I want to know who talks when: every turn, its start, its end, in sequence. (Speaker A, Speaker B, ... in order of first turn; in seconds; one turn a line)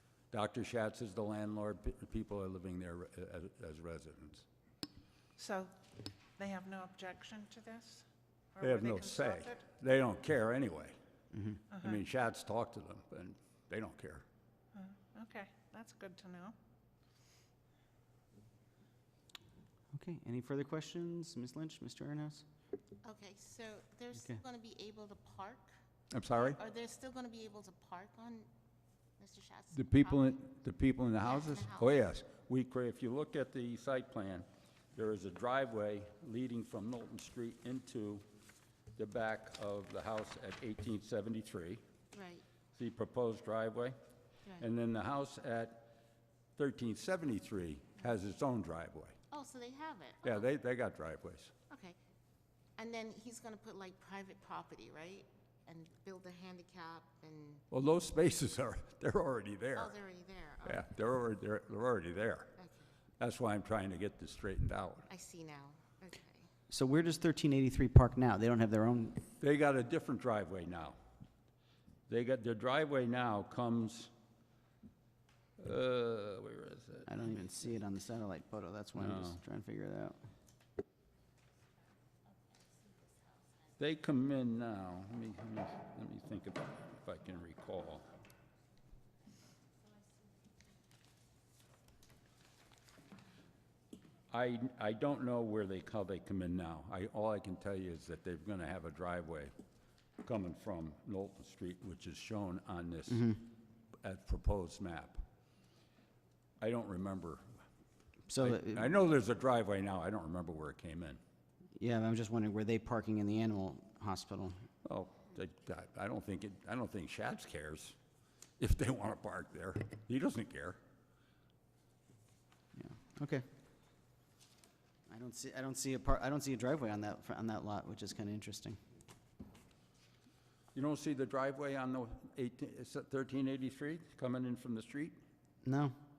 Speaker A: 0.3-4.5
Speaker B: 5.4-5.7
Speaker B: 6.4-9.6
Speaker A: 8.6-10.9
Speaker C: 11.3-11.6
Speaker B: 11.7-12.0
Speaker A: 11.8-14.2
Speaker B: 14.7-16.5
Speaker C: 19.9-22.4
Speaker D: 23.0-25.7
Speaker A: 26.1-26.6
Speaker D: 26.3-28.5
Speaker D: 29.2-30.4
Speaker A: 29.7-38.2
Speaker D: 31.2-31.9
Speaker A: 39.0-41.8
Speaker D: 42.1-42.4
Speaker A: 42.7-44.0
Speaker A: 44.6-45.9
Speaker A: 46.6-49.1
Speaker D: 49.3-50.4
Speaker A: 50.2-51.5
Speaker D: 51.7-52.0
Speaker D: 52.8-57.6
Speaker A: 57.7-60.0
Speaker D: 59.8-60.9
Speaker A: 60.6-62.5
Speaker D: 62.6-62.8
Speaker A: 63.2-65.1
Speaker D: 65.1-66.5
Speaker C: 66.7-69.2
Speaker A: 69.4-71.0
Speaker A: 72.1-74.1
Speaker A: 75.6-77.3
Speaker C: 77.1-80.2
Speaker A: 79.0-79.4
Speaker D: 82.3-83.4
Speaker A: 83.8-88.0
Speaker A: 94.3-99.5
Speaker A: 100.2-103.4
Speaker C: 103.1-103.4
Speaker A: 104.0-105.2
Speaker A: 106.6-107.4
Speaker C: 108.3-108.9
Speaker A: 108.4-111.2
Speaker C: 111.8-114.5
Speaker A: 114.8-118.0
Speaker A: 118.6-120.8
Speaker C: 122.7-123.4
Speaker C: 125.1-128.8
Speaker A: 130.7-135.2
Speaker C: 135.6-135.9